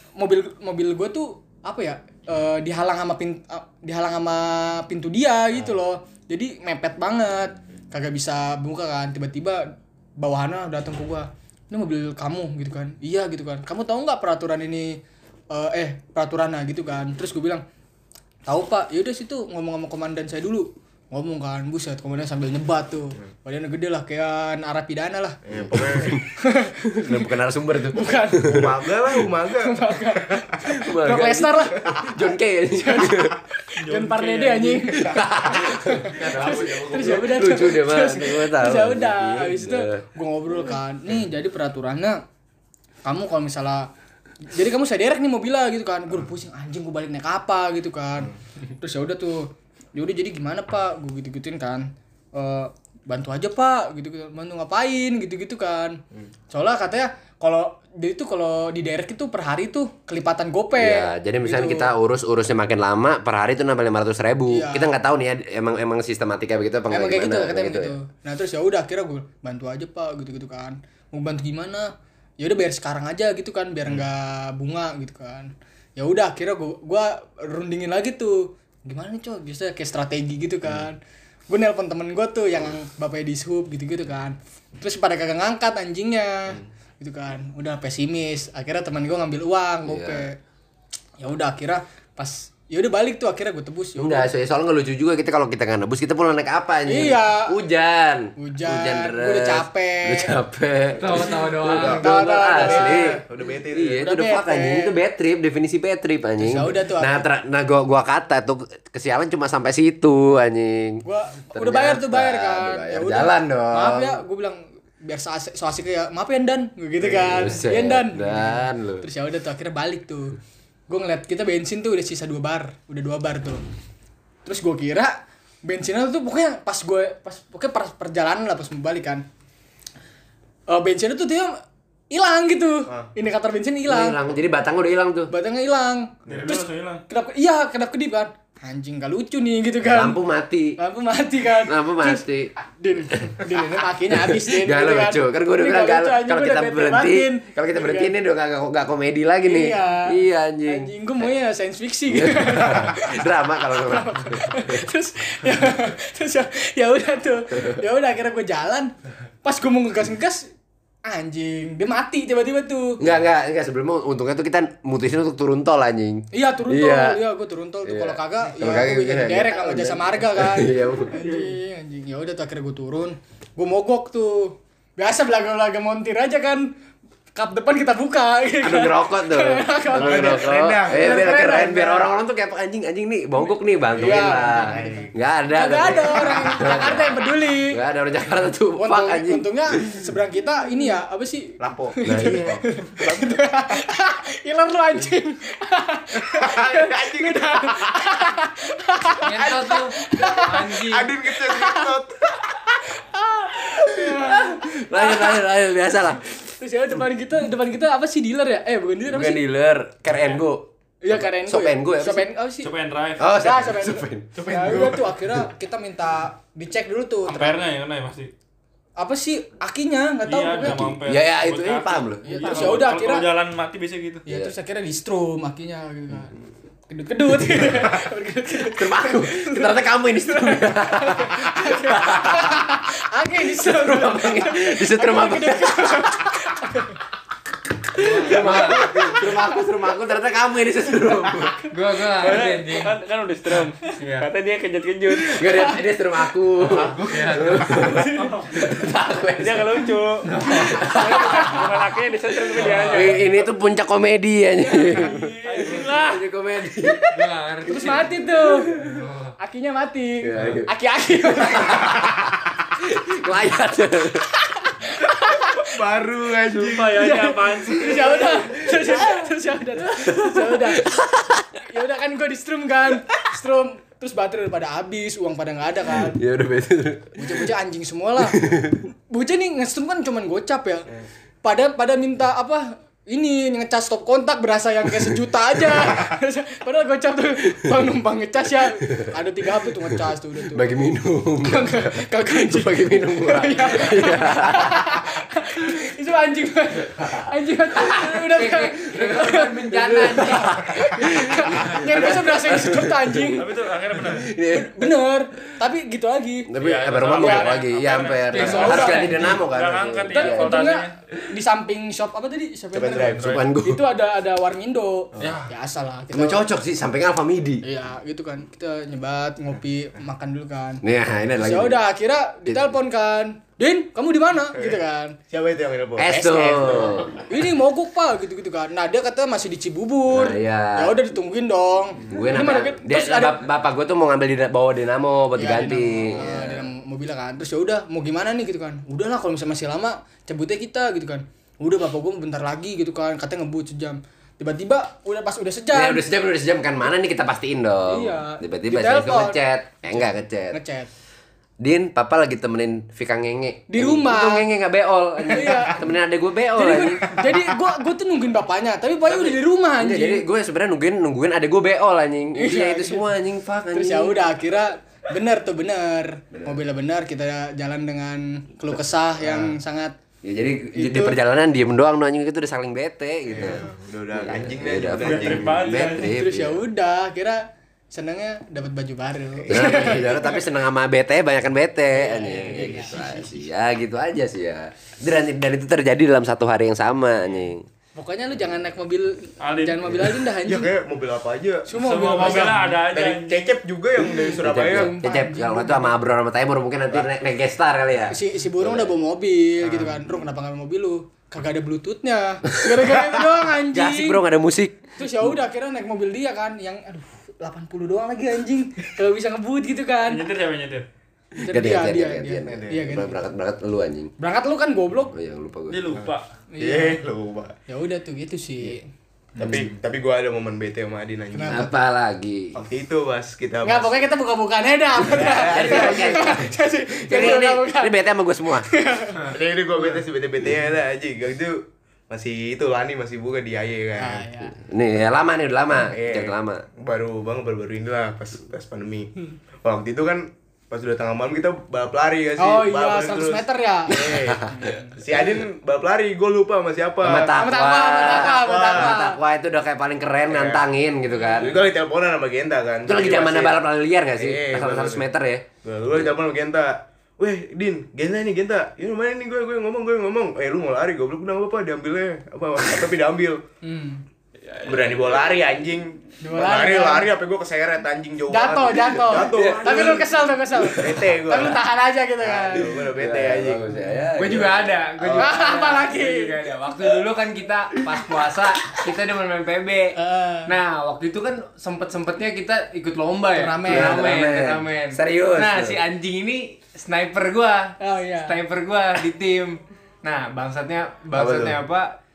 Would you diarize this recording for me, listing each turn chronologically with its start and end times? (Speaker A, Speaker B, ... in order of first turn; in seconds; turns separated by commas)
Speaker A: 0.2-15.0, Speaker A: 15.5-17.6, Speaker A: 18.5-27.3, Speaker B: 25.4-26.2, Speaker C: 25.6-26.2, Speaker C: 26.9-28.8, Speaker A: 27.9-28.7, Speaker B: 28.4-30.4, Speaker A: 29.5-42.2, Speaker C: 30.6-33.4, Speaker D: 33.8-35.0, Speaker C: 34.9-40.0, Speaker B: 36.2-37.2, Speaker A: 43.0-43.9, Speaker A: 44.5-56.0, Speaker A: 56.5-61.9, Speaker C: 60.8-68.0, Speaker A: 64.5-65.0, Speaker A: 66.9-90.4, Speaker C: 89.9-90.3, Speaker A: 91.2-94.3, Speaker C: 94.0-103.2, Speaker A: 96.9-97.6, Speaker A: 98.4-100.3, Speaker E: 101.0-102.0, Speaker B: 101.0-104.1, Speaker A: 101.8-103.2, Speaker C: 103.7-114.2, Speaker A: 104.0-105.0, Speaker A: 106.4-107.3, Speaker A: 111.0-120.4, Speaker C: 117.2-119.1, Speaker A: 120.9-123.6, Speaker A: 124.5-129.2, Speaker A: 130.7-131.6, Speaker A: 132.1-134.2, Speaker C: 133.9-135.3, Speaker A: 135.3-140.2, Speaker D: 136.3-137.0, Speaker C: 139.8-140.8, Speaker A: 140.8-142.2, Speaker C: 141.7-142.5, Speaker A: 142.8-148.1, Speaker C: 143.1-143.5, Speaker C: 144.1-151.3, Speaker A: 149.4-160.5, Speaker C: 152.1-154.8, Speaker A: 161.1-163.0, Speaker C: 163.0-167.2, Speaker A: 166.3-176.7, Speaker C: 167.8-171.2, Speaker A: 177.3-182.1, Speaker C: 178.6-189.6, Speaker B: 179.9-181.6, Speaker A: 183.9-187.8, Speaker B: 184.0-185.1, Speaker A: 188.8-201.9, Speaker B: 191.6-193.6, Speaker C: 192.1-192.6, Speaker B: 196.2-198.0, Speaker E: 199.2-201.1, Speaker B: 200.8-202.7, Speaker A: 202.9-205.4, Speaker C: 203.8-206.2, Speaker A: 206.3-209.4, Speaker C: 209.1-212.3, Speaker D: 210.1-210.4, Speaker A: 211.0-212.7, Speaker D: 212.6-213.3, Speaker C: 213.2-214.9, Speaker A: 213.3-217.5, Speaker B: 214.4-215.1, Speaker D: 217.3-218.3, Speaker A: 219.0-220.9, Speaker D: 220.2-224.2, Speaker C: 220.6-222.9, Speaker A: 222.2-223.3, Speaker A: 224.3-226.3, Speaker A: 226.9-237.0, Speaker C: 228.6-232.7, Speaker C: 233.5-236.3, Speaker E: 238.0-239.2, Speaker C: 238.0-241.6, Speaker A: 238.7-239.4, Speaker E: 241.7-242.9, Speaker D: 242.1-245.5, Speaker E: 243.9-244.3, Speaker C: 245.2-249.9, Speaker B: 246.6-248.0, Speaker E: 247.1-248.0, Speaker A: 247.9-248.4, Speaker D: 248.2-248.6, Speaker D: 249.4-250.3, Speaker E: 250.2-251.6, Speaker C: 250.5-251.7, Speaker D: 250.9-253.3, Speaker C: 252.5-257.3, Speaker E: 252.7-253.2, Speaker A: 254.6-256.0, Speaker D: 255.5-256.2, Speaker E: 257.1-259.3, Speaker A: 257.7-258.7, Speaker C: 258.4-258.9, Speaker A: 259.4-262.0, Speaker C: 260.2-260.7, Speaker C: 261.2-264.3, Speaker A: 264.6-265.5, Speaker B: 265.3-267.1, Speaker D: 266.5-268.5, Speaker A: 266.9-276.2, Speaker C: 269.9-271.5, Speaker C: 275.9-277.5, Speaker A: 277.2-278.5, Speaker C: 278.2-278.8, Speaker A: 279.1-280.9, Speaker A: 281.4-290.9, Speaker C: 289.9-295.1, Speaker A: 291.4-303.5, Speaker C: 297.8-304.9, Speaker E: 298.2-300.5, Speaker D: 303.4-304.3, Speaker A: 304.5-306.5, Speaker C: 306.5-310.7, Speaker D: 306.6-310.9, Speaker A: 307.1-307.6, Speaker A: 308.3-309.4, Speaker E: 308.4-309.4, Speaker A: 310.1-316.4, Speaker B: 312.7-313.4, Speaker C: 313.2-313.8, Speaker D: 313.2-313.4, Speaker E: 315.2-315.5, Speaker C: 316.1-317.6, Speaker A: 317.6-320.8, Speaker C: 320.8-321.8, Speaker A: 321.4-325.2, Speaker B: 325.3-327.0, Speaker C: 326.0-327.2, Speaker A: 326.1-333.4, Speaker C: 330.1-331.0, Speaker C: 332.1-336.7, Speaker A: 335.4-346.1, Speaker C: 345.7-350.6, Speaker A: 347.9-350.9, Speaker C: 351.6-357.3, Speaker A: 353.7-354.5, Speaker A: 355.2-355.8, Speaker A: 356.5-360.2, Speaker C: 359.1-364.3, Speaker A: 362.4-363.1, Speaker A: 363.7-370.0, Speaker C: 369.2-369.6, Speaker C: 370.2-376.6, Speaker A: 370.8-371.2, Speaker B: 373.3-375.8, Speaker D: 374.9-376.1, Speaker A: 375.9-380.4, Speaker B: 379.5-379.9, Speaker C: 379.5-387.7, Speaker A: 381.9-383.0, Speaker B: 382.6-383.3, Speaker A: 388.0-390.7, Speaker D: 389.4-389.9, Speaker B: 390.4-394.9, Speaker A: 391.7-392.8, Speaker D: 391.8-393.6, Speaker A: 394.1-395.9, Speaker C: 394.2-398.9, Speaker A: 398.1-404.2, Speaker C: 402.5-403.1, Speaker C: 403.7-405.4, Speaker A: 405.0-410.2, Speaker D: 410.1-410.9, Speaker A: 411.4-413.3, Speaker C: 411.5-414.1, Speaker B: 412.5-412.9, Speaker A: 414.2-415.1, Speaker C: 415.1-416.0, Speaker D: 415.7-416.3, Speaker A: 416.5-417.0, Speaker B: 416.6-417.6, Speaker A: 417.7-418.9, Speaker B: 419.4-421.7, Speaker A: 421.3-421.7, Speaker C: 421.5-422.6, Speaker B: 422.5-424.0, Speaker A: 423.6-428.0, Speaker B: 425.0-426.5, Speaker C: 425.2-428.7, Speaker A: 428.6-429.3, Speaker B: 429.2-434.2, Speaker A: 434.0-434.6, Speaker C: 434.4-436.6, Speaker B: 435.8-447.4, Speaker A: 442.4-445.0, Speaker C: 447.0-451.6, Speaker A: 447.2-449.2, Speaker B: 448.0-449.0, Speaker B: 450.3-450.7, Speaker B: 451.2-453.6, Speaker C: 452.9-455.4, Speaker B: 454.1-455.1, Speaker B: 455.6-463.4, Speaker A: 463.6-464.1, Speaker D: 464.5-465.3, Speaker B: 464.6-471.7, Speaker A: 466.2-467.1, Speaker A: 468.3-472.8, Speaker C: 469.2-470.1, Speaker C: 472.4-474.7, Speaker B: 472.4-473.7, Speaker E: 474.1-491.9, Speaker B: 474.3-475.3, Speaker A: 475.1-476.3, Speaker A: 480.0-480.5, Speaker A: 483.3-484.0, Speaker C: 483.6-485.8, Speaker A: 487.8-488.4, Speaker B: 491.1-491.6